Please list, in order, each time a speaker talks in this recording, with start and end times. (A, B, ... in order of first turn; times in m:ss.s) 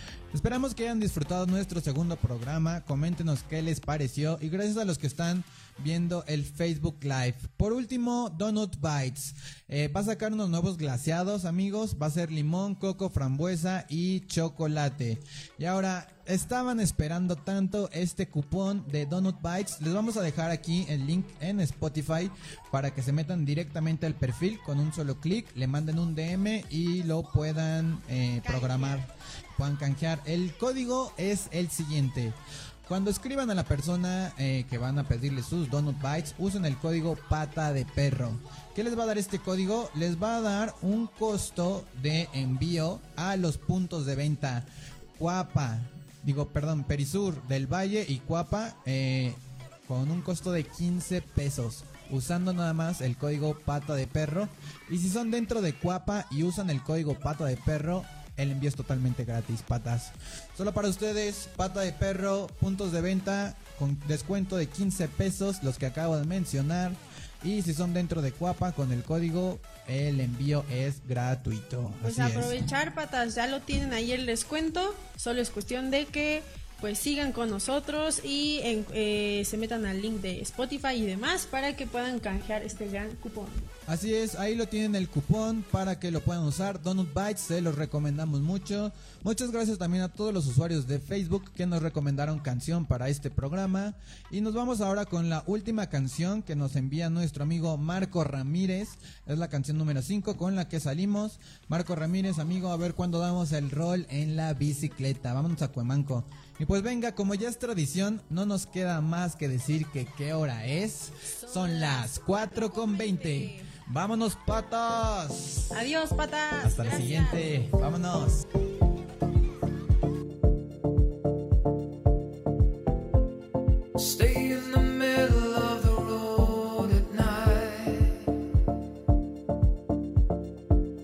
0:00.3-1:12.7 A
0:28.4-0:29.0 B
1:12.0-1:23.7 B
1:23.9-1:55.7 A
1:51.3-1:53.7 B
1:55.7-1:57.4 B
1:56.6-1:58.4 A
2:04.0-2:08.3 C